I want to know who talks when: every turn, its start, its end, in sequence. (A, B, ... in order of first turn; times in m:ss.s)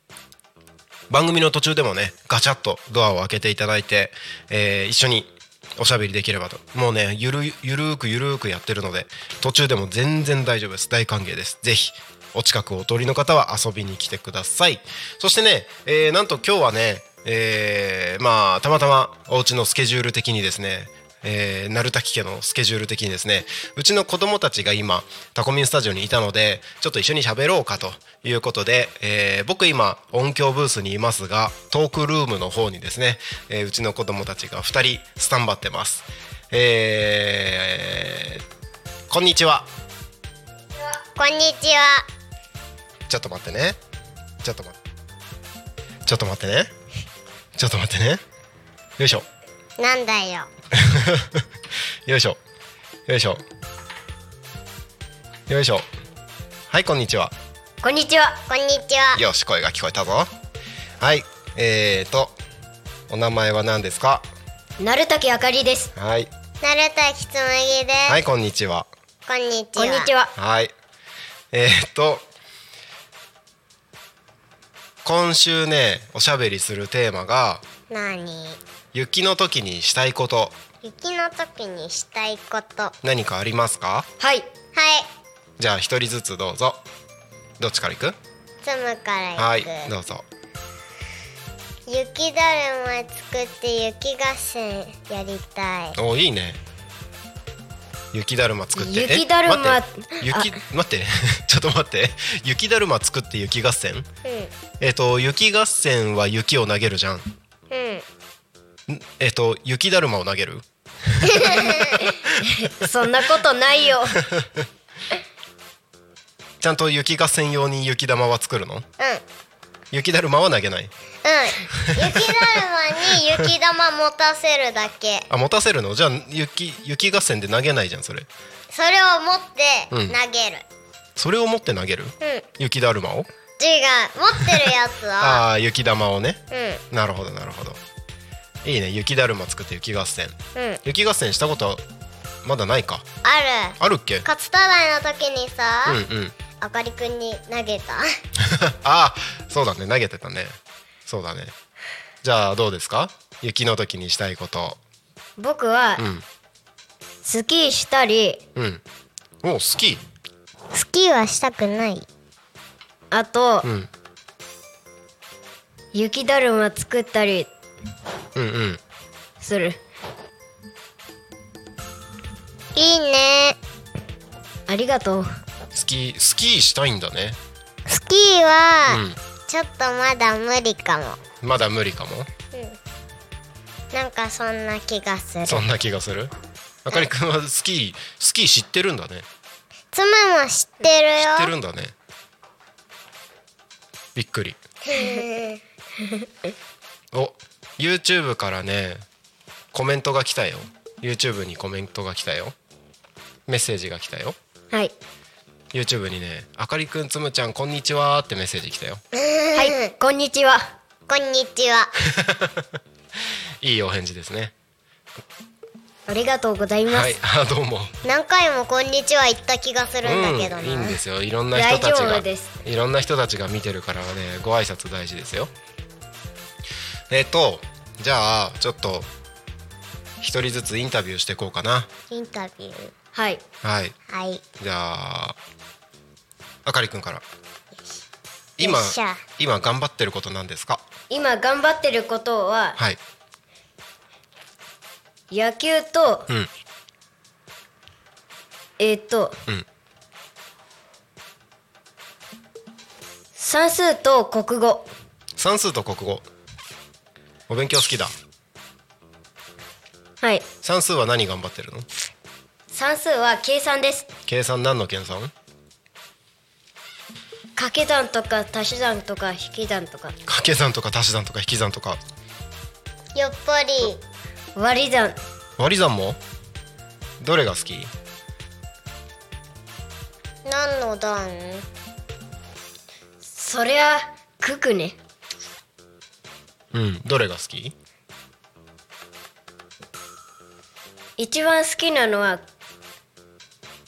0:01.1-0:38.4 A
0:39.1-0:39.7 A
0:41.2-0:42.0 B
0:43.1-0:43.8 A
0:44.4-0:44.8 A
0:46.0-0:46.7 A
0:47.5-0:48.2 A
0:49.0-0:49.2 A
0:49.8-0:50.5 B
0:50.7-0:51.4 A
0:52.0-0:52.4 A
0:53.1-0:53.4 A
0:55.5-0:55.8 A
0:56.7-0:57.3 A
0:57.8-0:58.4 C
0:58.5-0:59.2 B
0:59.1-1:00.3 A
1:01.0-1:02.4 A
1:03.1-1:04.3 A
1:04.8-1:05.9 C
1:05.9-1:06.3 A
1:06.6-1:08.2 B
1:08.0-1:08.9 A
1:09.3-1:10.1 B
1:09.8-1:10.3 C
1:10.4-1:10.7 A
1:11.5-1:12.2 A
1:15.0-1:17.6 A
1:17.9-1:18.6 B
1:18.9-1:20.6 A
1:20.8-1:22.9 B
1:23.0-1:24.1 A
1:24.2-1:24.5 C
1:24.7-1:25.1 B
1:25.6-1:26.8 A
1:27.6-1:28.2 A
1:28.6-1:29.9 B
1:29.4-1:30.2 A
1:31.9-1:36.0 B
1:36.0-1:36.6 A
1:38.1-1:44.1 A
1:38.8-1:40.6 C
1:44.2-1:44.5 B
1:44.8-1:47.2 A
1:47.7-1:48.0 B
1:48.9-1:51.6 A
1:51.2-1:52.0 B
1:52.4-1:54.2 C
1:54.3-1:54.6 A
1:56.6-1:58.8 A
1:59.9-2:00.9 A
2:01.2-2:05.3 B
2:01.7-2:02.4 A
2:05.3-2:08.3 A
2:08.7-2:10.6 B
2:09.9-2:10.2 A
2:11.2-2:13.3 A
2:13.6-2:15.4 B
2:15.2-2:17.8 A
2:16.5-2:16.8 B
2:18.6-2:21.8 A
2:20.5-2:20.8 B
2:22.4-2:23.1 A
2:23.2-2:26.0 B
2:23.8-2:24.2 A
2:25.8-2:26.3 A
2:26.6-2:28.0 B
2:28.4-2:31.5 A
2:32.2-2:34.8 A
2:35.4-2:36.0 C
2:36.0-2:36.2 A
2:37.2-2:38.4 C
2:38.5-2:38.8 A
2:39.4-2:40.0 A
2:40.7-2:42.0 B
2:43.1-2:43.7 C
2:43.6-2:43.9 A
2:45.9-2:47.5 C
2:48.4-2:48.8 A
2:49.4-2:49.8 C
2:52.8-2:53.6 B
2:54.7-2:55.3 C
2:55.7-2:57.4 A
2:57.9-3:01.2 B
2:58.9-2:59.2 A
3:01.4-3:02.3 A
3:02.5-3:02.8 B
3:03.9-3:05.6 B
3:05.5-3:06.3 A
3:06.8-3:09.2 A
3:09.9-3:11.5 B
3:11.2-3:11.9 A
3:14.1-3:14.6 A
3:14.8-3:15.6 B
3:17.1-3:19.0 A
3:19.7-3:22.5 A
3:23.5-3:24.4 A
3:25.7-3:29.0 A
3:29.1-3:29.9 B
3:29.5-3:30.7 C
3:31.1-3:31.9 B
3:32.1-3:32.7 A
3:33.6-3:34.5 A
3:36.1-3:37.1 C
3:36.9-3:37.9 A
3:38.0-3:41.0 B
3:40.0-3:45.5 A
3:41.5-3:42.5 C
3:47.1-3:49.1 A
3:50.2-3:51.9 A
3:52.1-3:52.9 B
3:53.1-3:53.4 C
3:53.6-3:53.9 A
3:54.1-3:54.4 B
3:54.6-3:55.4 A
3:56.6-3:57.2 A
3:58.6-4:00.8 A
3:58.6-3:59.2 B
4:01.1-4:02.8 C
4:05.3-4:06.3 C
4:08.8-4:09.3 C
4:13.4-4:14.9 C
4:15.4-4:16.3 A
4:17.5-4:18.1 A
4:20.6-4:21.9 A
4:22.7-4:24.1 C
4:24.3-4:25.3 A
4:27.6-4:30.1 C
4:30.2-4:32.0 A
4:33.2-4:34.0 B
4:34.6-4:35.2 C
4:35.6-4:36.2 A
4:37.2-4:37.9 A
4:40.4-4:41.6 B
4:43.3-4:45.0 C
4:46.7-4:47.7 A
4:51.2-4:52.4 C